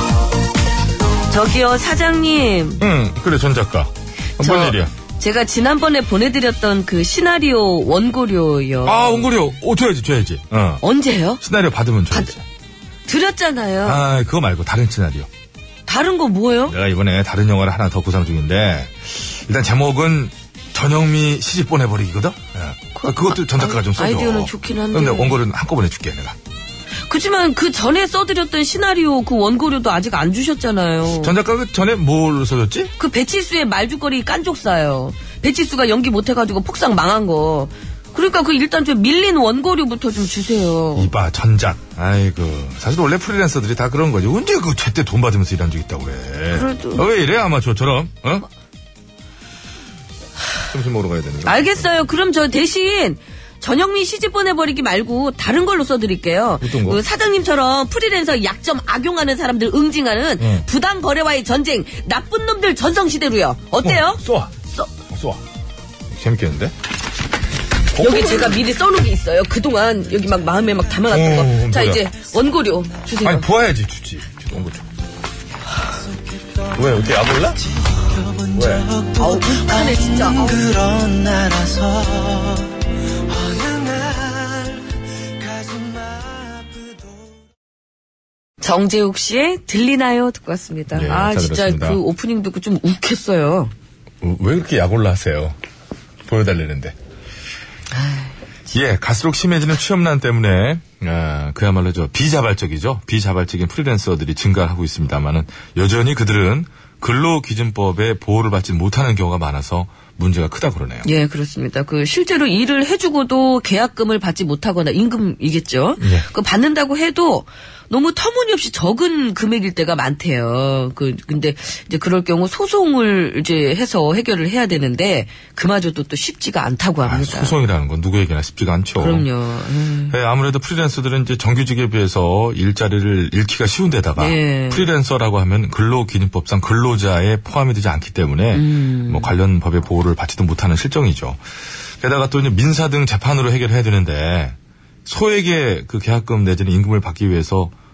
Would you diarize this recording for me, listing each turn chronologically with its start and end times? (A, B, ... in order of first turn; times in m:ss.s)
0:01.3-0:02.8 A
0:02.8-0:04.9 B
0:04.4-0:09.3 A
0:08.8-0:10.8 B
0:10.8-0:11.4 A
0:11.4-0:12.4 B
0:13.1-0:14.0 A
0:13.8-0:15.3 B
0:15.9-0:16.8 A
0:16.7-0:26.4 B
0:23.0-0:25.4 A
0:27.1-0:31.3 A
0:31.2-0:32.9 B
0:33.0-0:41.1 A
0:41.0-0:48.5 B
0:46.5-0:47.0 A
0:50.7-0:51.9 B
0:51.5-1:04.2 A
0:56.6-0:57.0 B
1:00.4-1:00.7 B
1:03.8-1:04.5 B
1:05.1-1:05.4 B
1:06.1-1:06.7 B
1:08.0-1:08.6 B
1:08.0-1:13.5 A
1:11.1-1:12.0 B
1:13.2-1:14.9 B
1:16.1-1:17.1 C
1:16.7-1:17.6 B
1:17.6-1:27.4 C
1:18.5-1:18.9 B
1:19.2-1:20.6 A
1:28.6-1:33.7 A
1:30.9-1:32.0 B
1:34.2-1:35.6 B
1:36.3-1:37.0 B
1:37.9-1:38.3 A
1:38.7-1:51.1 B
1:51.0-2:07.5 A
1:56.0-1:56.3 B
2:07.0-2:09.3 B
2:09.0-2:10.2 A
2:10.1-2:21.4 B
2:14.2-2:14.9 A
2:18.5-2:19.3 A
2:22.0-2:27.7 B